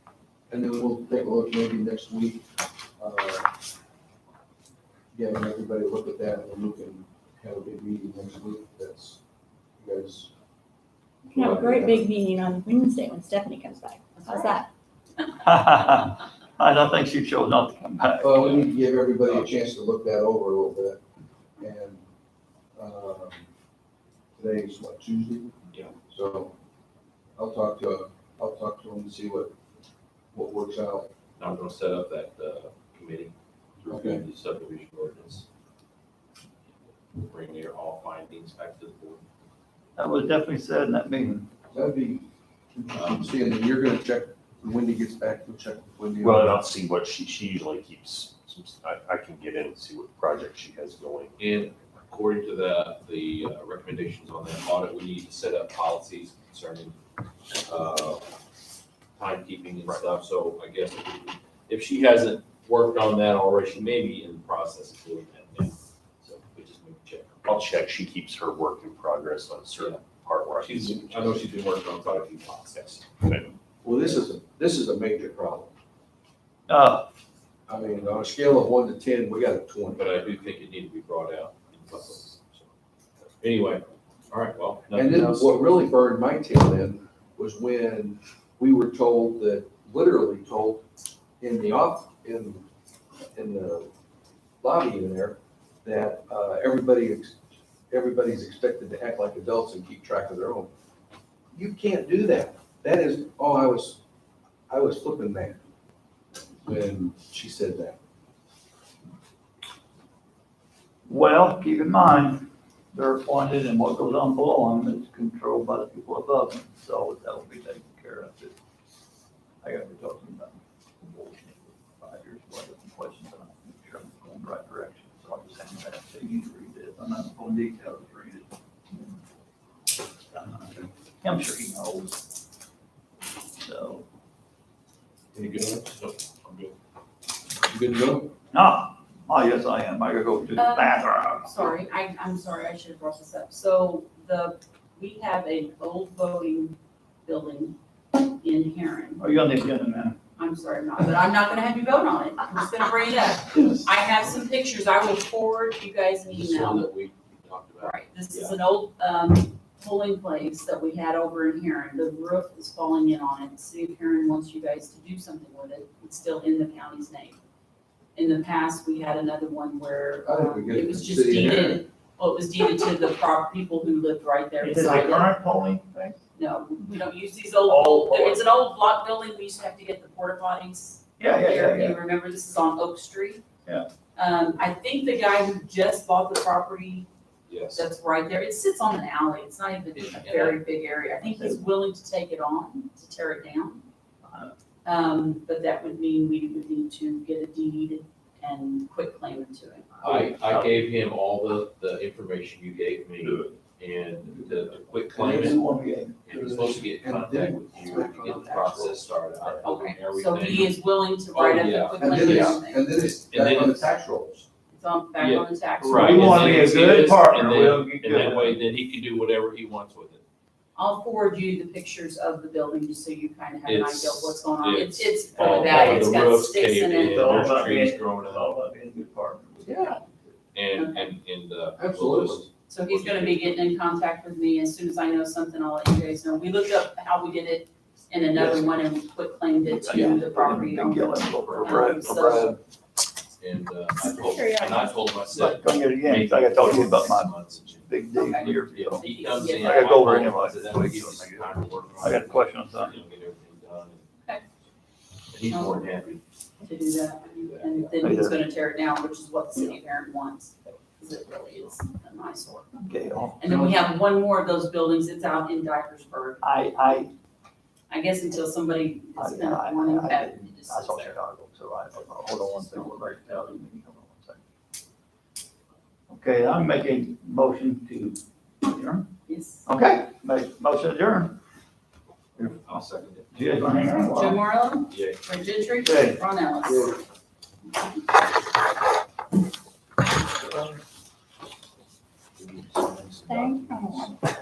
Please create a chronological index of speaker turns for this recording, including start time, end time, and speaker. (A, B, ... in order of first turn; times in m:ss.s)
0:00.5-0:02.4 A
0:03.0-0:03.5 A
0:05.1-0:09.2 A
0:09.8-0:10.3 A
0:11.3-0:14.7 B
0:11.3-0:11.9 C
0:11.6-0:12.0 A
0:14.2-0:14.6 D
0:15.4-0:18.5 E
0:18.2-0:21.0 A
0:18.4-0:18.7 C
0:19.2-0:19.5 C
0:21.6-0:22.0 A
0:22.8-0:23.5 A
0:24.4-0:25.5 A
0:26.1-0:26.5 A
0:27.4-0:29.5 A
0:30.3-0:31.1 A
0:31.4-0:35.4 C
0:33.9-0:34.2 A
0:37.1-0:39.2 C
0:40.0-0:41.5 E
0:41.7-0:46.6 A
0:42.9-0:43.3 C
0:46.2-0:51.4 F
0:51.4-0:57.0 C
0:57.6-0:58.3 C
0:59.2-1:07.4 C
1:07.4-1:11.6 F
1:09.8-1:13.0 C
1:12.8-1:13.5 F
1:13.8-1:15.7 A
1:16.7-1:17.1 E
1:17.7-1:20.3 A
1:19.9-1:22.7 C
1:23.4-1:25.6 C
1:24.9-1:30.8 A
1:31.4-1:32.6 A
1:33.3-1:33.9 A
1:34.6-1:40.7 A
1:41.5-1:44.0 A
1:44.7-1:45.6 A
1:46.6-1:48.0 A
1:51.1-1:58.6 E
1:59.6-2:09.2 E
2:10.3-2:12.2 E
2:13.6-2:14.0 E
2:15.4-2:15.8 A
2:15.4-2:16.7 C
2:17.7-2:18.3 A
2:18.5-2:21.6 E
2:20.6-2:29.2 D
2:29.2-2:30.2 E
2:30.4-2:36.9 D
2:33.5-2:34.0 C
2:36.3-2:38.6 C
2:37.8-2:47.4 D
2:48.2-2:55.3 D
2:50.3-2:51.8 A
2:54.6-2:56.2 E
2:56.4-3:03.4 D
2:57.6-2:58.4 E
3:01.2-3:02.0 E
3:04.2-3:07.1 D
3:07.5-3:07.8 C
3:07.8-3:13.8 D
3:09.9-3:10.6 C
3:11.2-3:11.6 E
3:14.2-3:14.5 E
3:14.8-3:20.0 D
3:20.0-3:20.8 E
3:20.0-3:25.6 C
3:23.2-3:23.6 E
3:24.3-3:26.3 E
3:25.2-3:25.6 A
3:26.2-3:33.9 C
3:26.3-3:29.1 A
3:29.6-3:32.9 D
3:32.0-3:34.4 A
3:34.7-3:36.7 D
3:35.2-3:40.2 C
3:35.8-3:38.6 E
3:40.8-3:47.6 D
3:43.6-3:48.6 C
3:45.4-3:46.0 E
3:47.0-3:50.4 E
3:49.6-3:50.0 A
3:50.5-3:53.7 C
3:50.8-3:51.1 D
3:51.8-3:52.5 A
3:52.7-4:02.6 D
3:59.6-4:02.6 E
3:59.9-4:00.2 C
4:01.4-4:02.2 C
4:02.1-4:02.6 A
4:03.4-4:14.1 C
4:04.0-4:05.0 B
4:05.3-4:13.0 E
4:08.1-4:10.4 D
4:15.3-4:16.2 C
4:15.5-4:15.9 D
4:16.6-4:22.7 D
4:17.3-4:18.3 C
4:18.0-4:18.4 E
4:22.8-4:23.8 E
4:23.4-4:26.4 D
4:26.4-4:27.1 E
4:27.9-4:31.2 D
4:29.2-4:34.4 E
4:32.3-4:33.5 D
4:36.1-4:39.1 E
4:39.3-4:39.7 D
4:39.7-4:41.4 E
4:42.4-4:44.4 E
4:42.4-4:43.3 C
4:44.1-4:47.0 D
4:44.9-4:45.2 C
4:45.8-4:46.2 E
4:46.7-4:47.0 A
4:50.4-4:50.8 E
4:52.4-4:53.9 C
4:53.3-4:54.2 B
4:53.7-4:54.2 E